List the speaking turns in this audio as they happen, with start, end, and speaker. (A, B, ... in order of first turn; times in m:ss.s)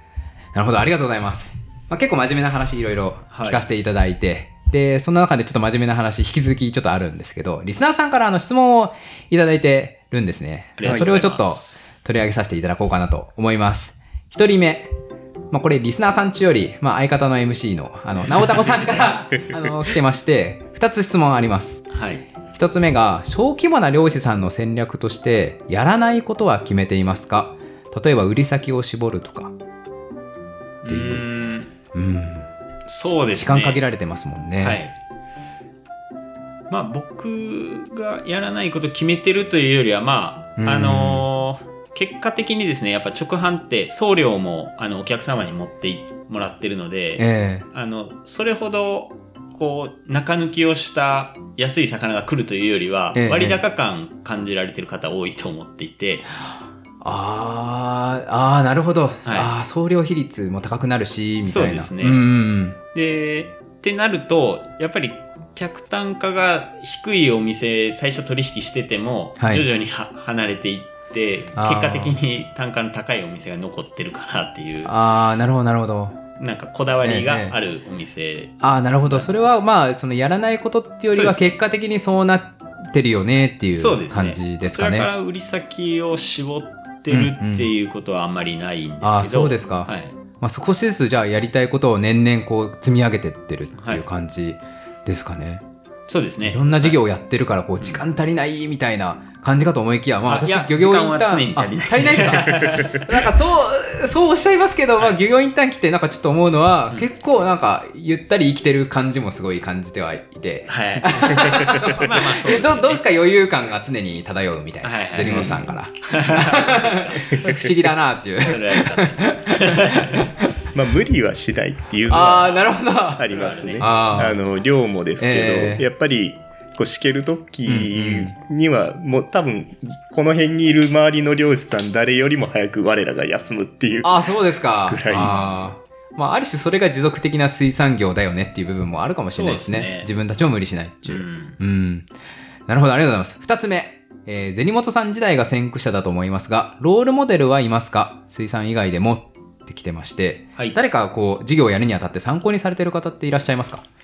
0:00.5-0:14.9 A
0:03.3-0:03.7 B
0:10.8-0:11.8 B
0:15.5-0:21.8 A
0:18.4-0:19.1 B
0:19.3-0:19.7 C
0:21.9-0:22.2 B
0:22.5-0:29.5 A
0:30.8-0:31.7 B
0:30.9-0:31.2 A
0:31.9-0:32.5 A
0:32.9-0:33.8 B
0:33.3-0:34.8 A
0:34.6-0:34.9 B
0:36.7-0:56.3 B
0:40.6-0:41.2 A
0:47.2-0:47.6 A
0:53.1-0:53.6 A
0:56.4-1:02.8 A
0:59.2-0:59.5 B
1:01.4-1:02.2 B
1:02.9-1:14.9 B
1:09.4-1:09.6 A
1:11.6-1:12.2 A
1:14.8-1:16.2 A
1:16.4-1:19.4 B
1:17.0-1:17.5 A
1:18.6-1:25.1 A
1:21.1-1:21.5 B
1:23.7-1:30.1 B
1:27.1-1:27.7 A
1:29.0-1:35.6 A
1:33.7-1:34.0 B
1:36.1-1:37.0 B
1:36.4-2:00.3 A
1:40.2-1:43.0 B
1:50.7-1:53.0 B
1:54.8-1:57.5 B
1:55.2-1:55.6 C
1:57.3-1:57.7 C
1:58.4-2:00.3 B
2:00.6-2:02.6 C
2:02.1-2:03.3 A
2:03.1-2:14.2 C
2:03.2-2:04.2 B
2:03.8-2:04.4 A
2:05.2-2:05.8 A
2:07.6-2:08.3 A
2:14.0-2:22.1 A
2:14.8-2:15.3 C
2:15.1-2:15.7 B
2:19.2-2:20.1 B
2:21.0-2:21.6 B
2:22.7-2:33.8 A